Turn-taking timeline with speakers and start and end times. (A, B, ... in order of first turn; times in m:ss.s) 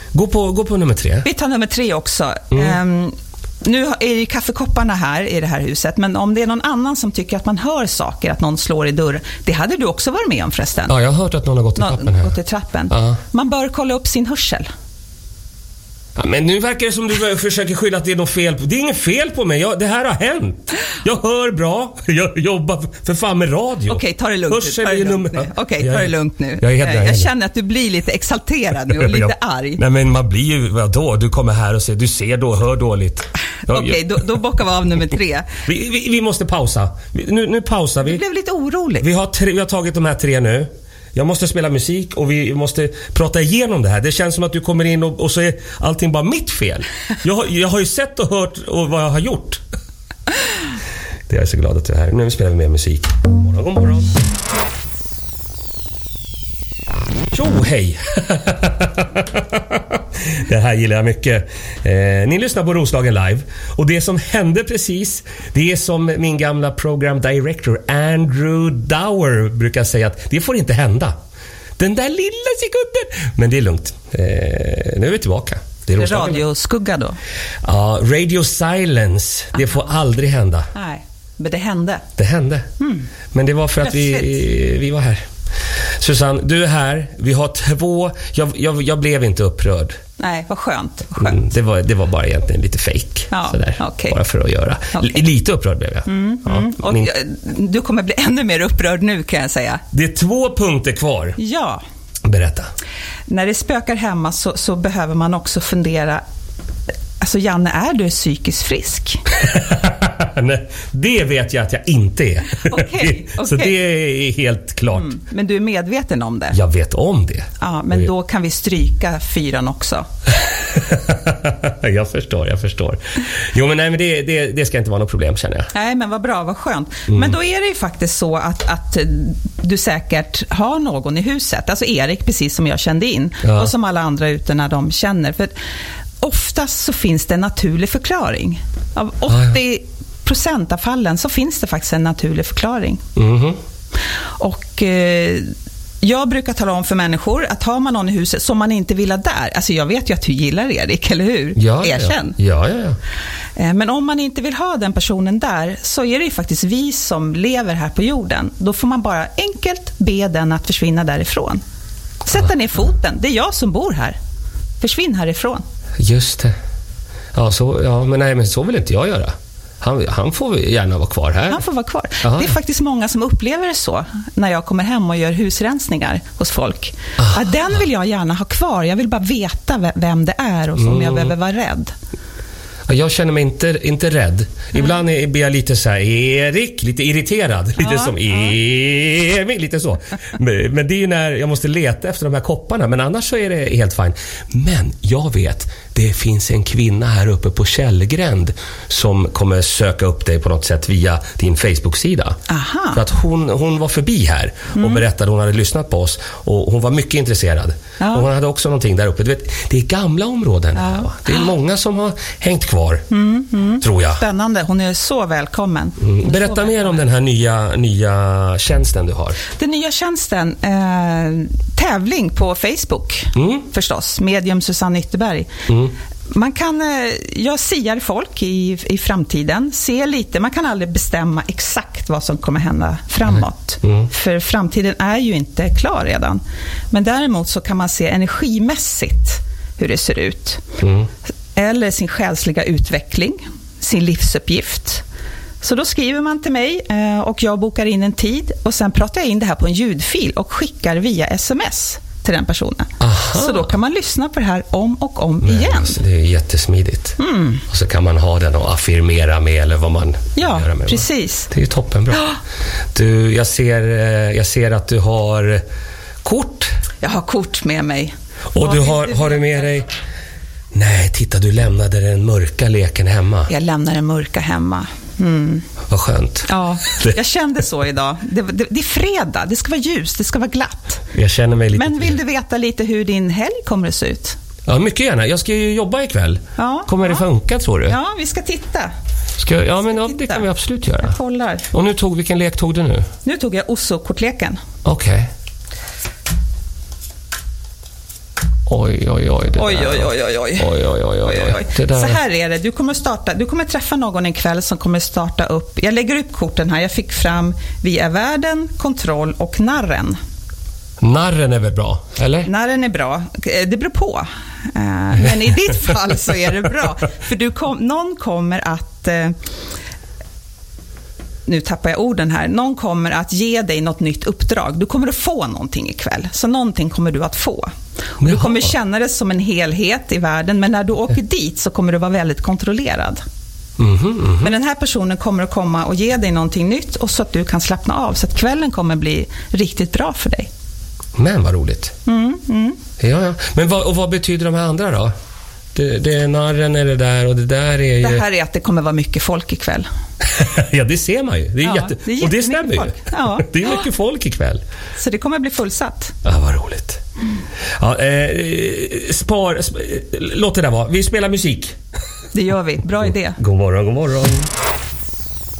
0:00.1-0:01.3 A
0:01.2-0:10.9 B
0:02.5-0:02.8 A
0:10.9-0:12.3 A
0:11.8-0:14.7 B
0:12.9-0:13.2 A
0:16.2-0:27.3 A
0:23.9-0:29.8 B
0:28.9-0:34.0 A
0:33.6-0:35.6 B
0:35.6-0:38.2 A
0:38.0-0:39.0 B
0:39.0-0:49.6 A
0:51.3-0:54.1 A
0:57.3-1:11.2 A
1:11.8-1:16.4 A
1:16.0-1:17.2 B
1:17.6-1:20.7 A
1:20.7-1:22.0 B
1:22.2-1:22.7 A
1:22.8-1:23.1 B
1:23.3-1:25.2 A
1:23.8-1:24.3 B
1:26.0-1:30.0 A
1:30.2-1:31.4 B
1:31.2-1:37.1 A
1:33.3-1:34.2 B
1:36.0-1:39.8 B
1:39.9-1:41.4 A
1:41.4-1:41.8 B
1:42.2-1:42.7 A
1:43.3-1:46.2 B
1:47.2-1:49.2 B
1:49.4-1:55.1 A
1:52.6-1:53.8 B
1:54.9-1:56.6 B
1:56.5-1:58.1 A
1:57.6-2:00.1 B
2:00.7-2:05.7 A
2:05.7-2:15.5 B
2:07.1-2:07.3 A
2:13.4-2:13.7 A
2:16.2-2:23.0 B
2:23.2-2:23.6 A
2:24.4-2:32.4 B
2:31.6-2:33.0 A
2:33.6-2:41.6 B
2:42.2-2:44.2 B
2:44.8-2:45.6 B
2:46.0-2:46.5 A
2:47.3-2:51.6 A
2:51.5-3:01.9 B
2:52.2-2:52.5 A
3:00.8-3:01.3 A
3:02.9-3:22.4 A
3:07.8-3:08.2 B
3:22.5-3:23.0 B
3:22.9-3:33.0 A
3:24.8-3:25.0 B
3:28.0-3:28.3 B
3:30.8-3:31.2 B
3:33.1-3:37.0 B
3:33.8-3:34.2 A
3:36.0-3:39.4 A
3:39.5-3:45.5 B
3:43.4-3:43.6 A
3:45.7-3:45.9 A
3:46.3-4:00.6 B
4:00.8-4:01.1 A
4:01.5-4:05.0 B
4:05.6-4:16.0 B
4:13.0-4:13.7 A
4:15.4-4:22.3 A
4:17.2-4:17.6 B
4:20.4-4:21.5 B
4:22.1-4:22.4 B
4:22.9-4:25.6 A
4:26.2-4:26.7 A
4:27.0-4:29.6 B
4:28.5-4:29.9 A
4:30.7-4:33.5 A
4:33.5-4:35.7 B
4:35.9-4:37.1 A
4:36.4-4:41.0 B
4:41.1-4:42.2 A
4:41.7-4:44.4 B
4:44.7-4:48.0 A
4:46.6-4:47.2 B
4:47.8-4:48.9 B
4:49.4-4:51.2 A
4:49.9-4:50.4 B
4:51.0-4:51.7 B
4:51.7-4:53.1 A
4:53.2-4:54.6 B
4:54.8-4:55.3 A
4:58.7-5:02.2 A
4:59.5-5:10.2 B
5:11.0-5:12.5 A
5:12.4-5:19.4 B
5:21.4-5:33.2 B
5:28.2-5:28.7 A
5:33.8-5:34.5 A
5:34.4-5:40.5 B
5:41.2-5:41.9 A
5:42.0-5:42.8 B
5:43.0-5:45.1 A
5:45.7-5:48.2 A
5:48.0-5:49.9 B
5:50.2-5:54.6 A
5:51.6-5:53.7 B
5:55.0-5:56.1 B
5:56.2-5:57.0 A
5:57.8-6:01.7 A
6:02.3-6:03.4 B
6:03.4-6:04.5 A